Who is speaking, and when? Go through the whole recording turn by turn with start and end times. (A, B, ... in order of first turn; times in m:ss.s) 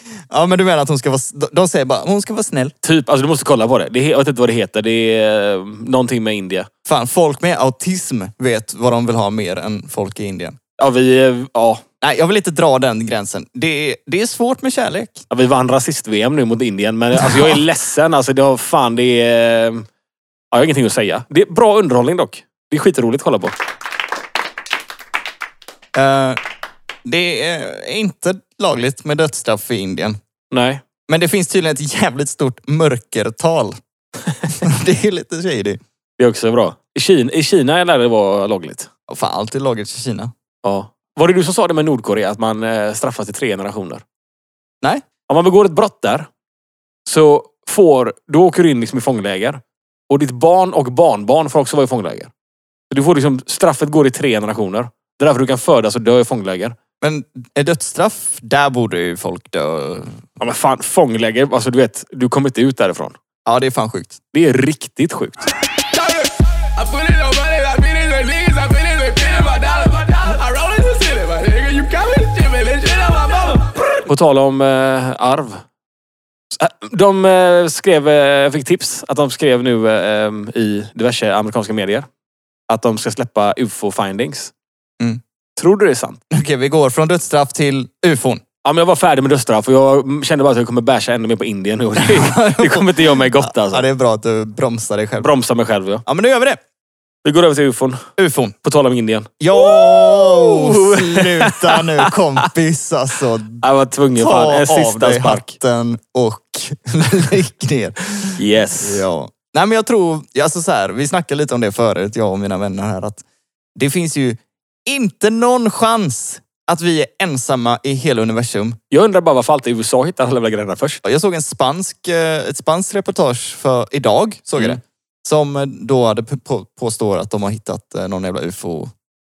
0:00.3-0:02.7 A
0:02.8-0:06.7 B
0:06.8-0:10.6 A
0:10.8-0:11.8 B
0:12.0-0:15.2 A
0:15.3-0:19.9 B
0:17.2-0:17.6 A
0:20.5-0:23.5 B
0:25.9-0:26.4 A
0:27.0-0:30.2 A
0:30.5-0:30.8 B
0:31.1-0:33.8 A
0:34.6-0:35.8 A
0:36.2-0:38.9 B
0:39.1-0:40.3 A
0:40.6-0:44.0 B
0:45.3-0:46.3 B
0:47.0-0:52.3 B
0:52.9-0:56.8 B
0:57.0-1:00.2 A
1:00.4-1:03.2 B
1:03.4-1:04.2 A
1:04.3-1:05.5 B
1:05.9-1:14.0 C
1:14.0-1:15.6 B
1:16.5-1:22.1 B
1:22.7-1:24.5 B
1:25.6-1:26.2 B
1:26.3-1:28.4 A
1:28.6-1:33.8 B
1:32.0-1:35.3 A
1:35.2-1:36.0 B
1:36.0-1:36.6 A
1:37.2-1:38.1 B
1:38.2-1:38.5 A
1:38.6-1:42.1 B
1:39.4-1:43.6 A
1:43.6-1:45.5 B
1:44.2-1:53.2 A
1:48.4-1:49.0 B
1:53.8-1:58.8 A
1:58.9-2:01.0 B
2:01.0-2:08.9 A